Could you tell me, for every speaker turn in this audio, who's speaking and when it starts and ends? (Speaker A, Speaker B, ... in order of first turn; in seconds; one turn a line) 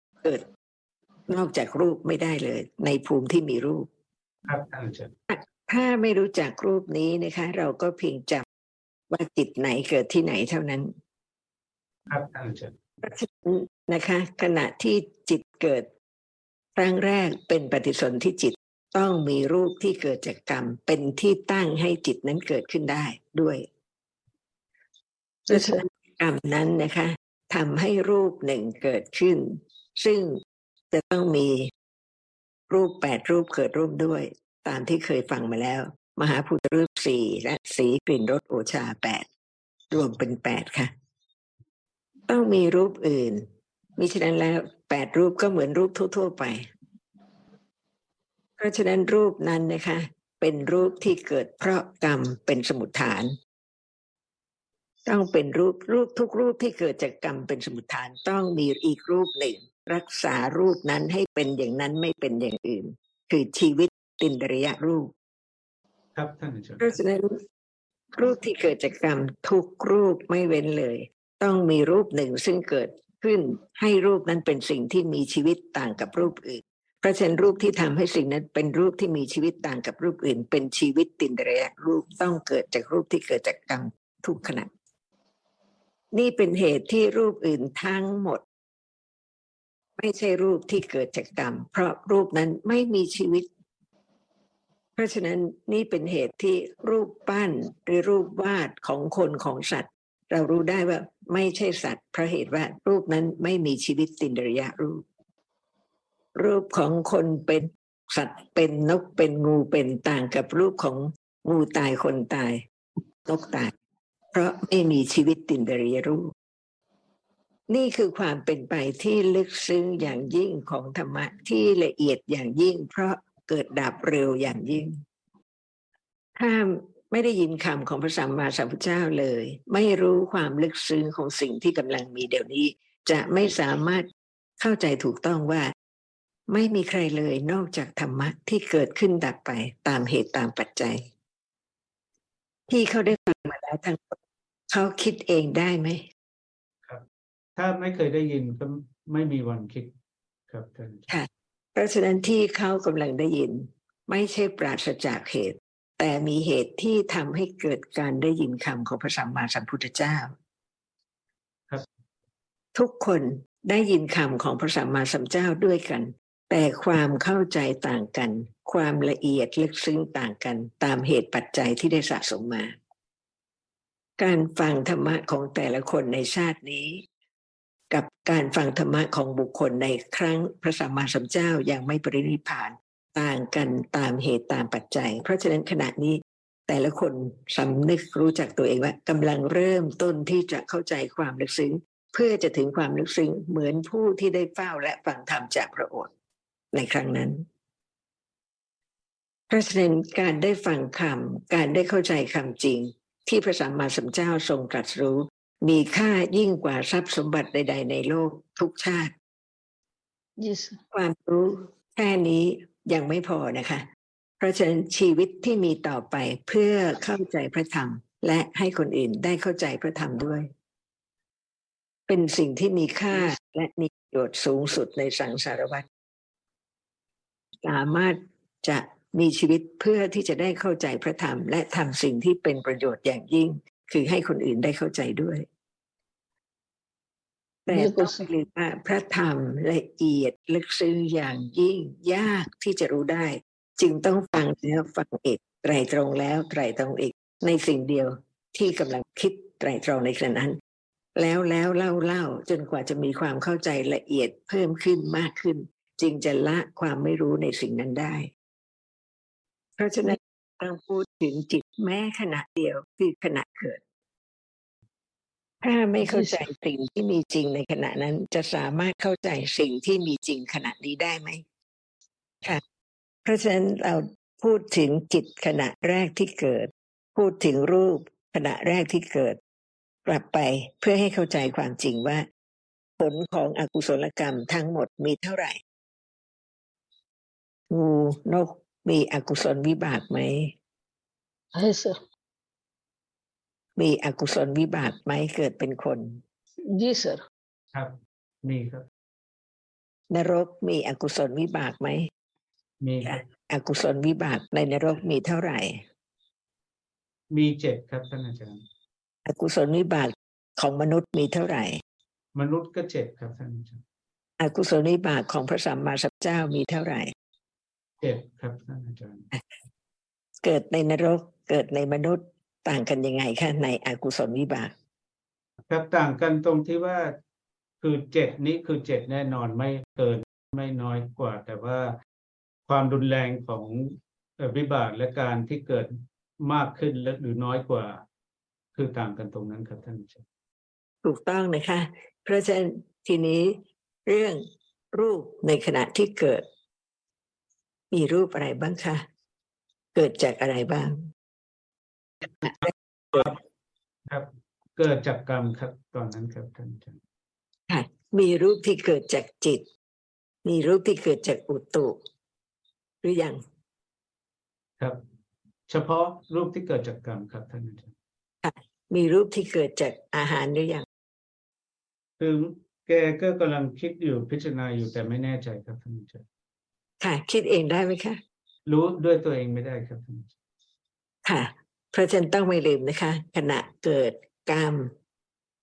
Speaker A: 1.3-3.9
Speaker B: 4.5-5.1
Speaker A: 5.3-8.5
Speaker A: 9.1-10.9
Speaker B: 12.1-12.8
Speaker A: 13.0-15.9
Speaker A: 16.8-23.7
Speaker C: 25.5-25.8
Speaker A: 25.5-31.7
Speaker A: 32.7-39.3
Speaker A: 39.9-40.9
Speaker A: 42.3-43.5
Speaker A: 44.0-46.7
Speaker A: 48.6-53.4
Speaker A: 55.1-65.1
Speaker B: 66.1-67.0
Speaker A: 66.8-67.4
Speaker A: 68.1-84.7
Speaker A: 86.1-88.4
Speaker A: 90.0-93.5
Speaker A: 95.0-105.0
Speaker A: 106.4-112.6
Speaker A: 113.2-113.7
Speaker A: 114.3-116.3
Speaker A: 117.7-125.0
Speaker A: 126.4-134.1
Speaker A: 134.6-135.7
Speaker A: 136.5-141.0
Speaker A: 142.7-144.2
Speaker A: 144.7-146.0
Speaker B: 147.6-149.9
Speaker B: 150.5-151.1
Speaker A: 151.1-160.3
Speaker A: 162.8-172.8
Speaker A: 174.2-177.0
Speaker A: 177.9-196.1
Speaker A: 196.7-197.4
Speaker A: 199.5-209.1
Speaker C: 210.4-210.8
Speaker A: 210.9-213.9
Speaker A: 214.4-220.5
Speaker A: 222.1-225.9
Speaker A: 227.6-235.5
Speaker A: 237.7-250.6
Speaker C: 237.7-238.3
Speaker A: 251.2-258.3
Speaker A: 259.8-263.8
Speaker A: 265.6-271.4
Speaker C: 266.0-266.5
Speaker A: 273.2-279.4
Speaker A: 280.1-282.3
Speaker A: 283.0-285.6
Speaker A: 287.7-290.5
Speaker C: 291.5-292.0
Speaker A: 293.8-296.2
Speaker C: 296.7-297.2
Speaker B: 297.7-298.9
Speaker A: 300.1-302.1
Speaker B: 302.8-303.1
Speaker A: 303.0-305.8
Speaker B: 307.3-308.6
Speaker A: 309.2-311.8
Speaker B: 312.3-313.8
Speaker A: 314.4-317.1
Speaker B: 318.0-319.3
Speaker A: 320.4-324.7
Speaker B: 325.7-327.2
Speaker B: 327.8-332.0
Speaker B: 332.7-338.0
Speaker B: 338.8-340.2
Speaker A: 341.0-346.4
Speaker A: 347.9-349.1
Speaker A: 349.9-351.1
Speaker A: 352.4-353.3
Speaker B: 352.4-353.4
Speaker B: 354.1-357.0
Speaker A: 357.7-359.6
Speaker A: 360.4-362.0
Speaker A: 363.0-363.4
Speaker B: 365.7-367.9
Speaker A: 368.4-370.9
Speaker B: 372.2-376.2
Speaker A: 377.0-378.2
Speaker B: 378.7-380.3
Speaker A: 381.2-384.9